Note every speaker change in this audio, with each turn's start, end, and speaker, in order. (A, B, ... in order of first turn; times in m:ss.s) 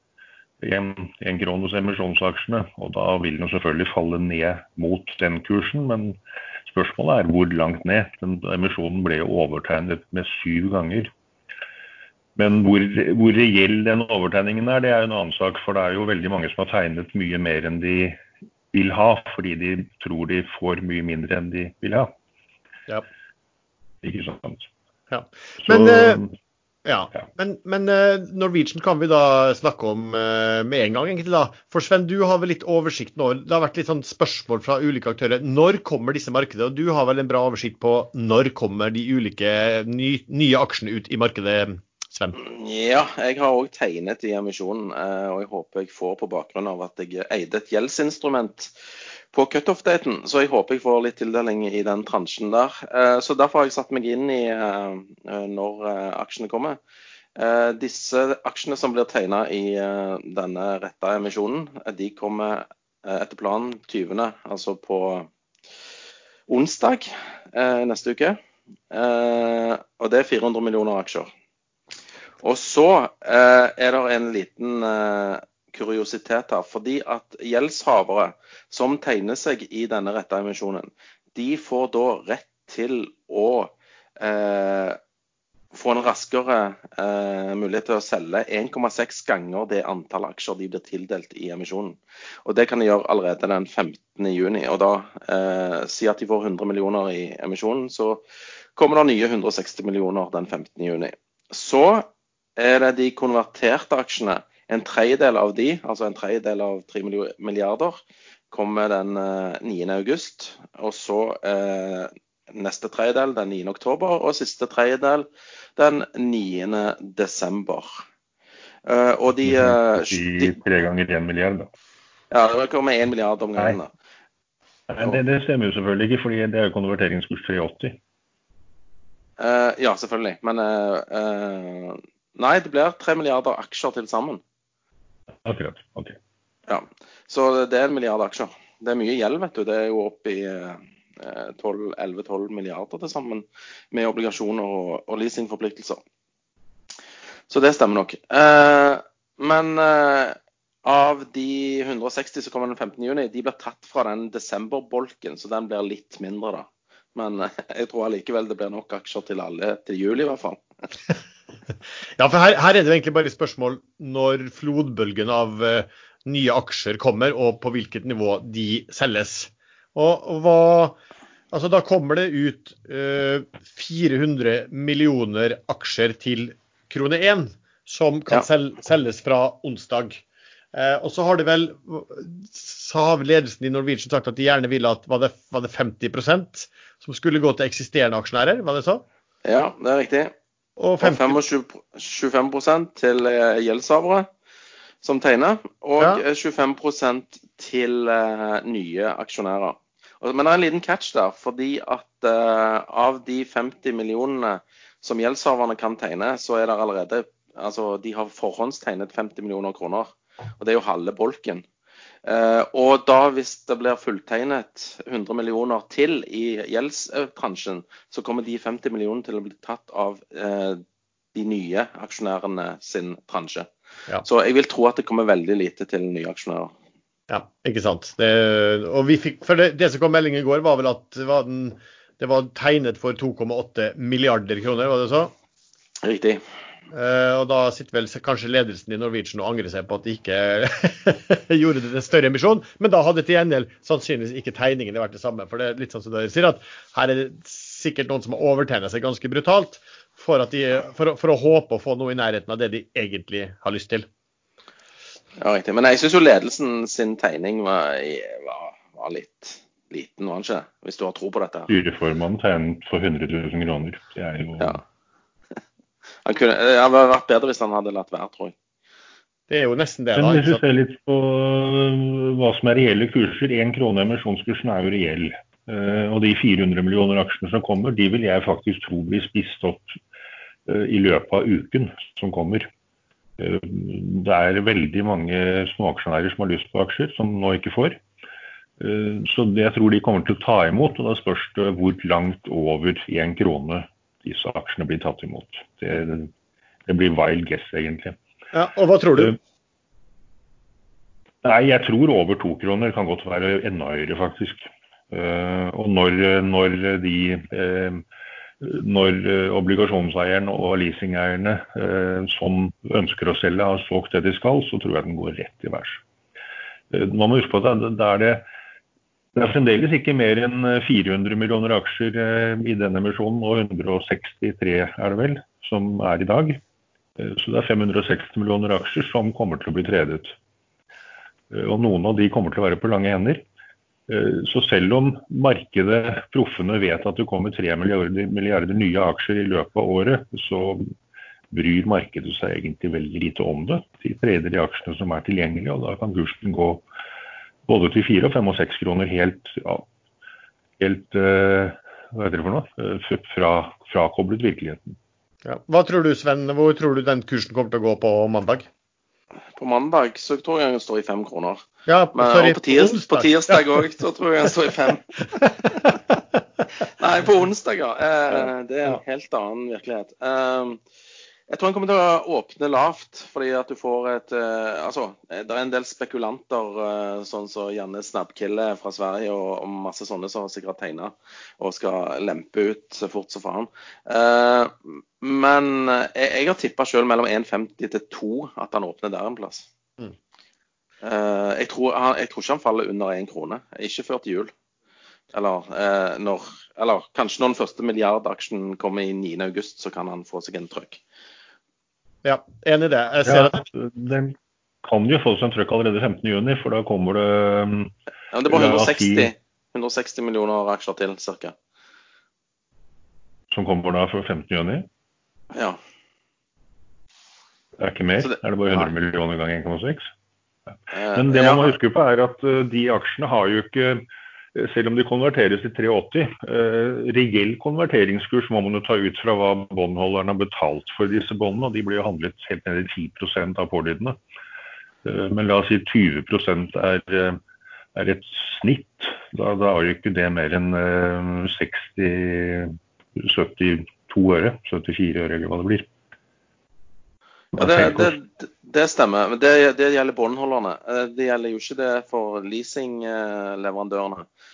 0:00.6-0:11.1 A
0:12.4-0:18.2 A
0:18.7-0:22.1 A
0:24.0-0:24.7 A
0:25.1-0:26.2 B
0:25.6-0:26.3 A
0:26.8-0:42.4 B
0:42.3-0:48.7 C
0:49.3-0:56.8 C
0:57.4-1:05.3 C
1:06.5-1:08.4 C
1:08.9-1:11.3 C
1:12.4-1:25.0 C
1:25.7-1:38.2 C
1:38.8-1:58.0 C
1:58.8-2:00.6 C
1:59.4-2:01.7 A
2:02.3-2:03.9 C
2:04.9-2:08.0 A
2:09.4-2:14.4 C
2:15.4-2:16.2 A
2:16.7-2:26.0 C
2:27.5-2:40.6 C
2:42.2-2:51.0 B
2:51.5-3:00.2 B
3:00.7-3:09.0 B
3:09.4-3:10.3 C
3:10.8-3:11.4 B
3:11.0-3:14.3 C
3:15.0-3:31.6 C
3:32.2-3:40.8 C
3:41.3-3:43.7 C
3:44.2-3:46.7 C
3:47.3-3:55.3 B
3:56.0-3:56.4 C
3:56.9-4:14.1 B
4:15.4-4:21.7 C
4:21.7-4:24.8 A
4:26.2-4:28.5 C
4:29.5-4:30.6 B
4:30.1-4:40.0 A
4:40.7-4:42.7 A
4:43.4-4:48.0 A
4:48.8-4:56.3 A
4:56.9-4:58.2 A
4:58.5-4:59.4 B
5:01.4-5:08.0 A
5:08.6-5:16.0 A
5:16.9-5:18.4 A
5:19.3-5:26.6 A
5:27.2-5:30.3 A
5:31.5-5:33.4 A
5:34.1-5:40.9 A
5:41.5-5:46.8 A
5:47.7-5:49.9 A
5:50.8-5:55.0 A
5:55.4-5:58.7 B
5:59.6-6:01.6 C
6:01.8-6:03.8 B
6:02.1-6:05.4 C
6:07.0-6:10.8 C
6:11.5-6:29.7 C
6:31.0-6:34.5 C
6:35.3-6:41.0 C
6:42.2-6:43.6 B
6:43.2-6:47.9 A
6:48.3-6:51.5 C
6:48.5-6:49.3 A
6:53.5-6:54.9 A
6:55.5-6:55.8 C
6:57.8-7:00.1 A
6:58.2-6:58.9 C
7:00.9-7:01.8 C
7:01.1-7:04.0 A
7:04.5-7:14.2 A
7:15.0-7:17.4 A
7:18.0-7:25.9 A
7:27.5-7:34.2 C
7:27.6-7:28.1 A